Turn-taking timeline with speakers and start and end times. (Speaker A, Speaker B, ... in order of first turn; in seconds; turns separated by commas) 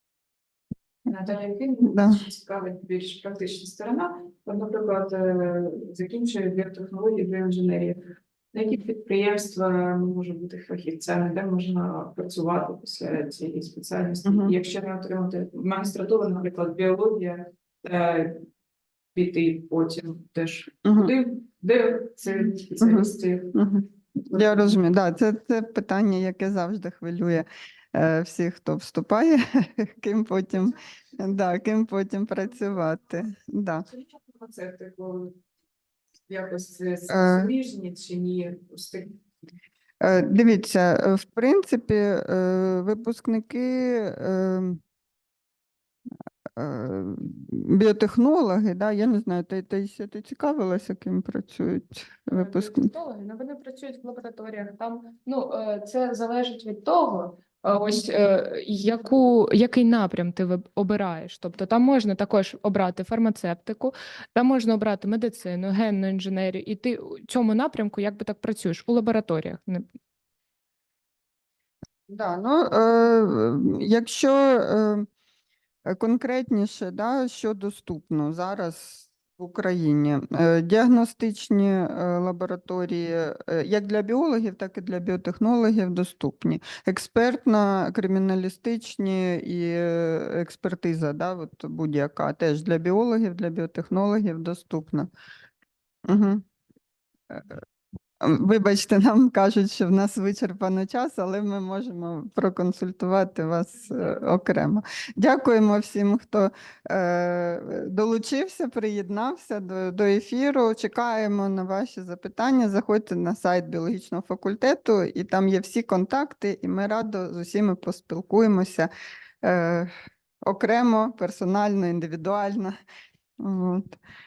Speaker A: 1.1-18.4, Speaker B: 1.8-2.2, Speaker B: 14.2-14.6, Speaker A: 19.1-23.6, Speaker B: 20.9-21.1, Speaker B: 22.8-33.9, Speaker A: 24.3-24.7, Speaker A: 33.9-35.4, Speaker A: 36.3-39.2, Speaker B: 37.1-37.5, Speaker B: 40.0-44.8, Speaker B: 46.6-52.9, Speaker C: 52.3-69.9, Speaker B: 72.1-75.1, Speaker B: 75.9-95.1, Speaker B: 96.1-96.5, Speaker B: 97.3-97.6, Speaker B: 98.2-118.9, Speaker B: 119.4-119.9, Speaker B: 120.4-122.8, Speaker B: 123.4-124.0